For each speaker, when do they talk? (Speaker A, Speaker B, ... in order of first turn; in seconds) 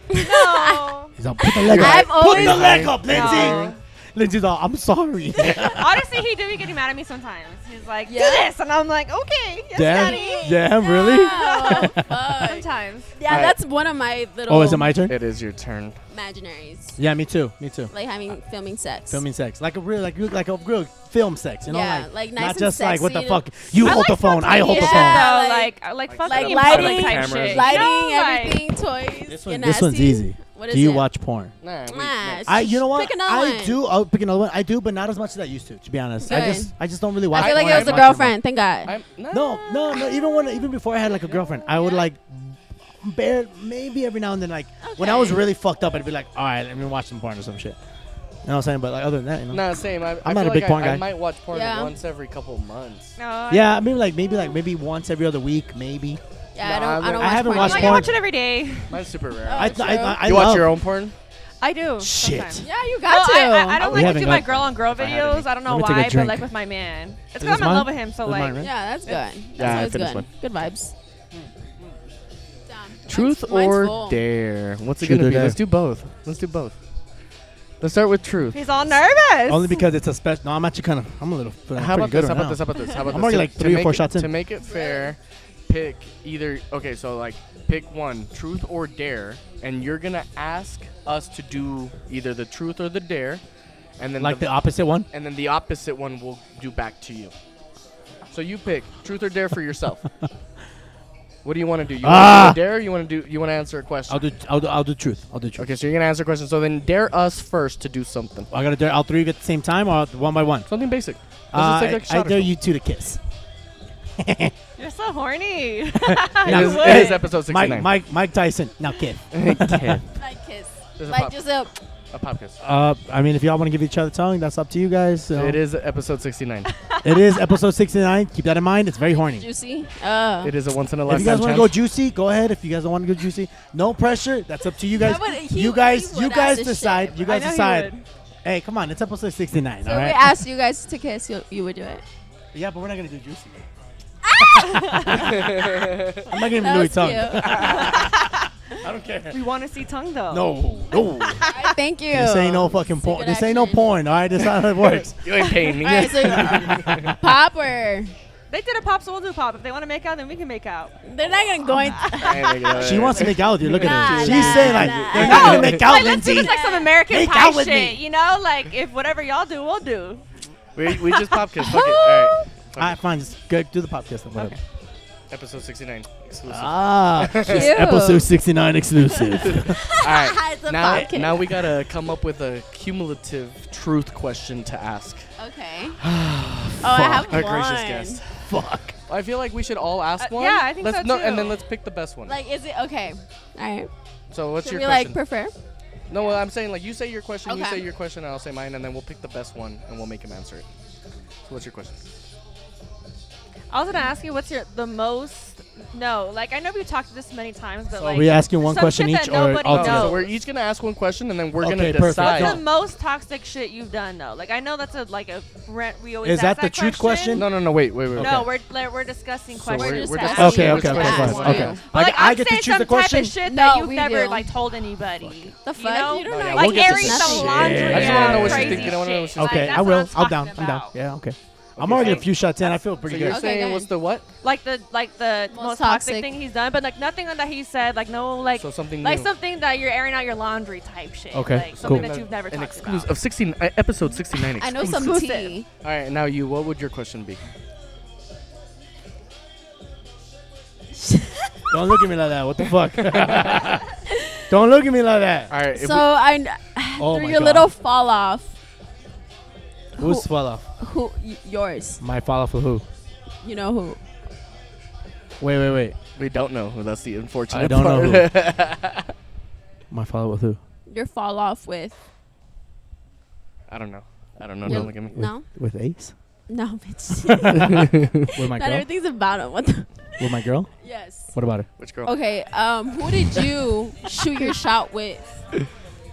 Speaker A: 0.1-0.9, 1.4-3.6, 8.1-8.5, 10.0-14.9, 16.1-17.0, 17.9-19.2, 21.7-31.1, 31.9-33.8, 36.2-36.7, 37.3-38.9, 44.8-45.4, 51.5-51.9, 56.5-58.1, 59.5-60.3, 62.6-63.9, 68.6-70.9, 72.7-74.2, 84.6-85.1, 120.2-121.7, 129.3-130.5, 134.9-137.2, 139.8-142.0, 144.3-145.3, 146.5-147.9, 151.5-153.8, 155.8-158.1, 161.0-162.6, 163.2-166.9, 177.5-178.3, 179.6-181.5, 185.4-186.0, 186.8-188.2, 192.2-193.9, 194.6-195.5, 197.4-197.8, 219.7-221.8, 223.4-224.4, 225.6-228.1, 233.3-233.9, 235.5-236.3, 244.6-245.7, 251.0-251.5, 254.1-254.4, 255.7-258.5, 260.0-260.3, 260.8-262.0, 263.4-264.0, 270.9-271.9, 274.6-275.4, 276.5-279.9, 280.8-281.3, 282.0-285.3
Speaker B: 0.1-1.1, 3.0-3.8, 5.6-13.1, 23.8-28.6, 53.2-53.8, 57.5-59.0, 61.6-69.2, 78.5-79.8, 114.8-117.3, 126.8-127.1, 137.2-138.0, 144.7-145.0, 147.5-148.4, 149.3-151.8, 155.3-156.2, 158.5-160.9, 161.7-162.8, 164.1-170.2, 170.9-172.2, 190.2-191.6, 203.7-210.3, 212.2-217.5, 218.2-230.9, 231.9-232.3, 234.4-243.1, 244.7-245.5
Speaker C: 1.1-6.1, 9.7-12.1, 14.5-15.1, 17.0-17.9, 19.1-25.3, 29.3-31.5, 32.5-38.4, 39.3-47.8, 48.5-49.6, 50.2-51.0, 53.5-56.2, 57.1-58.1, 59.5-60.8, 62.0-62.6, 63.8-64.5, 65.6-66.5, 67.4-68.7, 75.0-75.6, 79.5-84.3, 94.2-95.1, 102.0-102.6, 104.1-105.7, 108.5-110.7, 111.5-113.2, 114.2-114.5, 116.0-120.0, 122.6-125.6, 127.0-129.4, 131.1-137.9, 138.4-140.3, 142.5-143.6, 144.4-145.5, 146.2-149.4, 150.3-151.4, 152.1-155.2, 156.3-157.2, 162.7-166.5, 167.1-168.0, 172.8-174.6, 176.5-179.8, 188.4-188.9, 207.9-210.3, 211.6-212.6, 216.2-217.5, 218.1-218.4, 220.3-223.3, 227.3-233.4, 241.3-242.1, 251.7-253.9, 254.5-255.5, 257.0-257.7, 260.0-260.6, 262.0-262.8, 265.4-265.9, 267.5-268.3, 269.9-270.6, 274.6-276.1, 277.2-278.9, 280.2-280.7, 281.3-281.7
Speaker D: 1.6-3.7, 13.3-13.5, 15.1-15.9, 26.1-27.9, 31.6-32.4, 37.3-38.1, 38.9-39.7, 49.5-53.1, 56.6-57.7, 58.9-61.1, 63.8-65.5, 69.6-70.2, 73.1-76.8, 77.8-78.7, 81.8-93.4, 94.0-94.5, 95.1-97.3, 98.3-100.0, 101.4-104.2, 105.6-108.5, 110.7-112.5, 116.4-117.9, 119.3-120.0, 121.0-121.3, 122.1-122.6, 125.3-126.7, 130.4-131.7, 145.1-146.2, 154.8-157.1, 162.1-165.8, 170.7-173.0, 175.3-177.7, 179.4-185.2, 186.0-188.4, 189.1-192.3, 194.3-195.2, 196.1-200.7, 201.4-202.0, 209.7-212.6, 217.3-218.5, 219.6-221.8, 226.2-229.9, 231.8-232.2, 233.0-234.3, 238.6-239.3, 241.7-245.1, 245.8-247.4, 252.9-253.4, 255.5-256.1, 266.1-269.1, 273.7-275.2, 277.6-278.1, 281.8-282.1